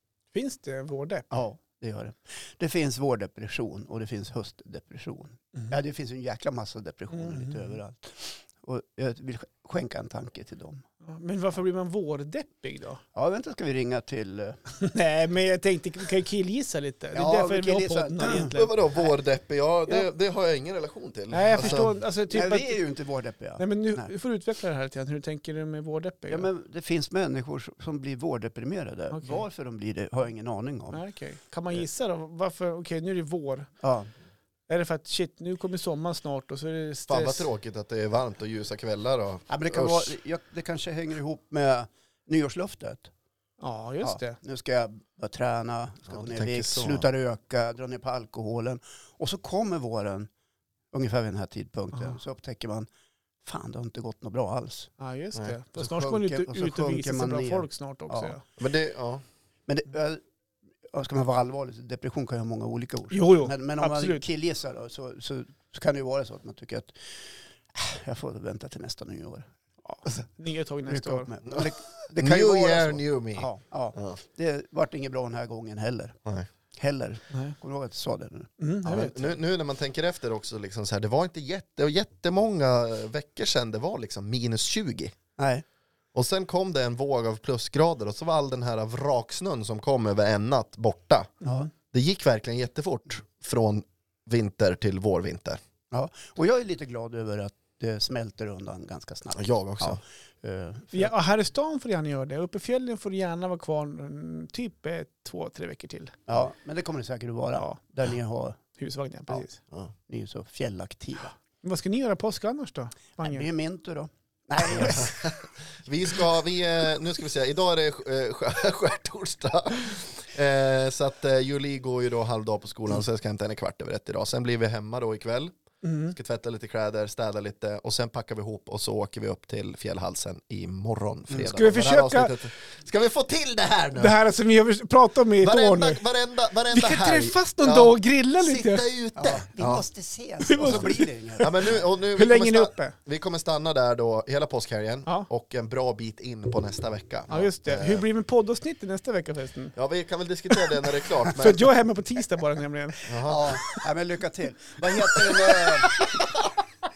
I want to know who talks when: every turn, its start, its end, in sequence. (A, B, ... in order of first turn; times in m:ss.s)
0:00.3-0:01.3 A
0:01.3-0:10.8 B
0:07.1-0:07.8 A
0:11.0-0:13.0 A
0:13.2-0:14.6 B
0:14.7-0:18.8 A
0:17.1-0:18.5 B
0:18.3-0:21.9 C
0:21.3-0:22.8 A
0:21.6-0:24.1 B
0:23.6-0:26.5 A
0:26.3-0:31.0 B
0:29.1-0:29.4 A
0:30.9-0:33.7 A
0:33.8-0:34.1 B
0:34.7-0:37.5 A
0:37.1-0:40.1 C
0:39.5-0:43.1 B
0:43.6-0:44.4 A
0:44.0-0:50.3 B
0:46.1-0:47.0 C
0:50.9-0:52.9 B
0:53.4-0:54.9 B
0:55.0-0:58.4 A
0:55.8-0:58.4 B
0:58.6-0:59.2 C
0:59.7-1:00.2 B
1:00.9-1:07.2 B
1:03.1-1:04.2 A
1:07.7-1:09.5 B
1:09.9-1:11.3 A
1:10.9-1:16.2 B
1:11.5-1:14.2 C
1:16.8-1:19.1 B
1:18.6-1:19.2 A
1:18.9-1:25.2 C
1:25.4-1:25.6 B
1:26.1-1:31.3 C
1:31.4-1:31.7 B
1:31.9-1:35.6 C
1:35.9-1:41.1 B
1:39.4-1:40.0 C
1:40.9-1:46.2 A
1:46.3-1:48.6 B
1:48.8-1:49.6 A
1:50.1-1:51.3 B
1:51.6-1:53.5 A
1:53.2-1:55.2 B
1:54.8-2:05.5 C
2:05.8-2:06.2 A
2:06.1-2:14.2 C
2:11.5-2:12.3 A
2:14.0-2:16.0 A
2:15.4-2:19.8 C
2:16.7-2:18.9 A
2:19.2-2:21.8 B
2:20.5-2:23.0 A
2:20.6-2:20.9 C
2:21.4-2:28.0 C
2:27.3-2:29.8 A
2:29.8-2:31.7 C
2:31.2-2:33.2 A
2:33.1-2:33.5 C
2:33.2-2:36.1 B
2:35.1-2:36.0 A